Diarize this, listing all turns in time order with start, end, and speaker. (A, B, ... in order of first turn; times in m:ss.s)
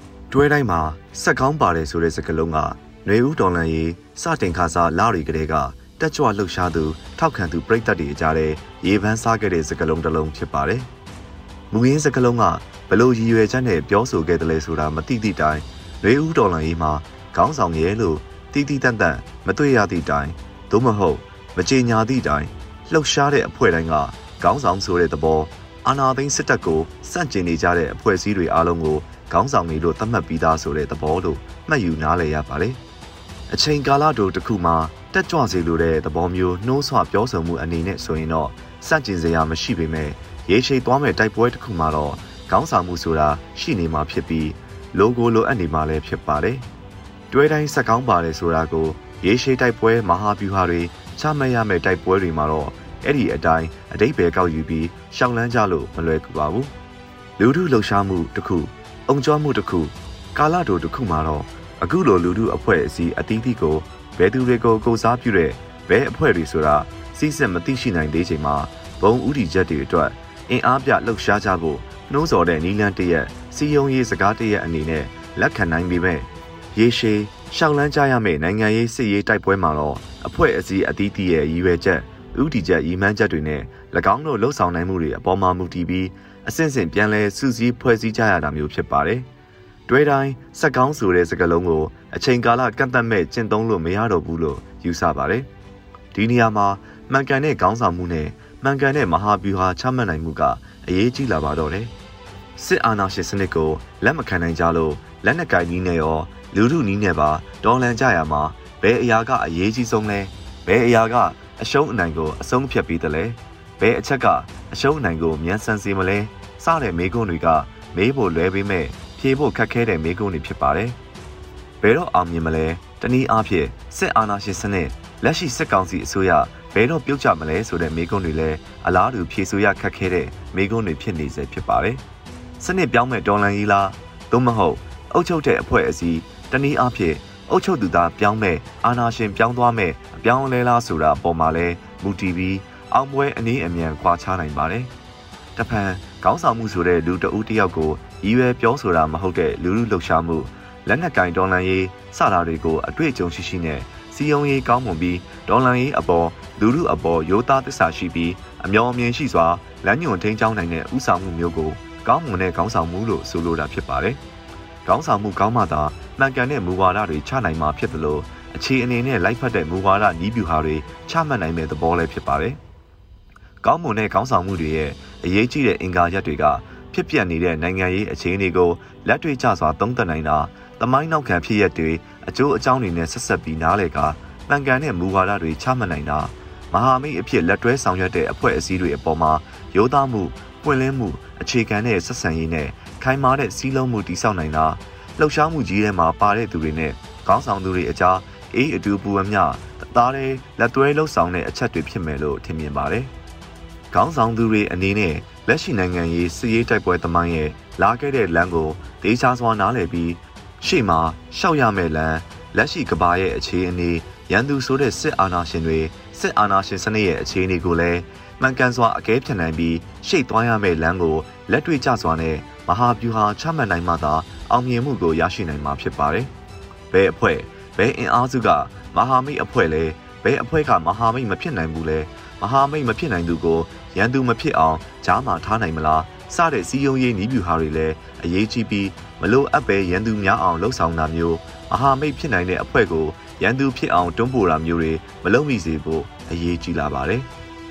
0:00.3-0:10.9 A
0:11.7-0:32.8 A
0:33.5-0:46.6 A
0:47.3-0:56.7 A
0:57.4-1:29.3 A
1:29.9-1:35.5 A
1:36.1-1:41.9 A
1:42.6-2:01.0 A
2:01.8-2:12.0 A
2:12.6-2:24.9 A
2:25.6-2:44.2 A
2:44.8-2:52.6 A
2:53.6-3:23.1 A
3:23.9-3:46.3 A
3:46.9-4:07.3 A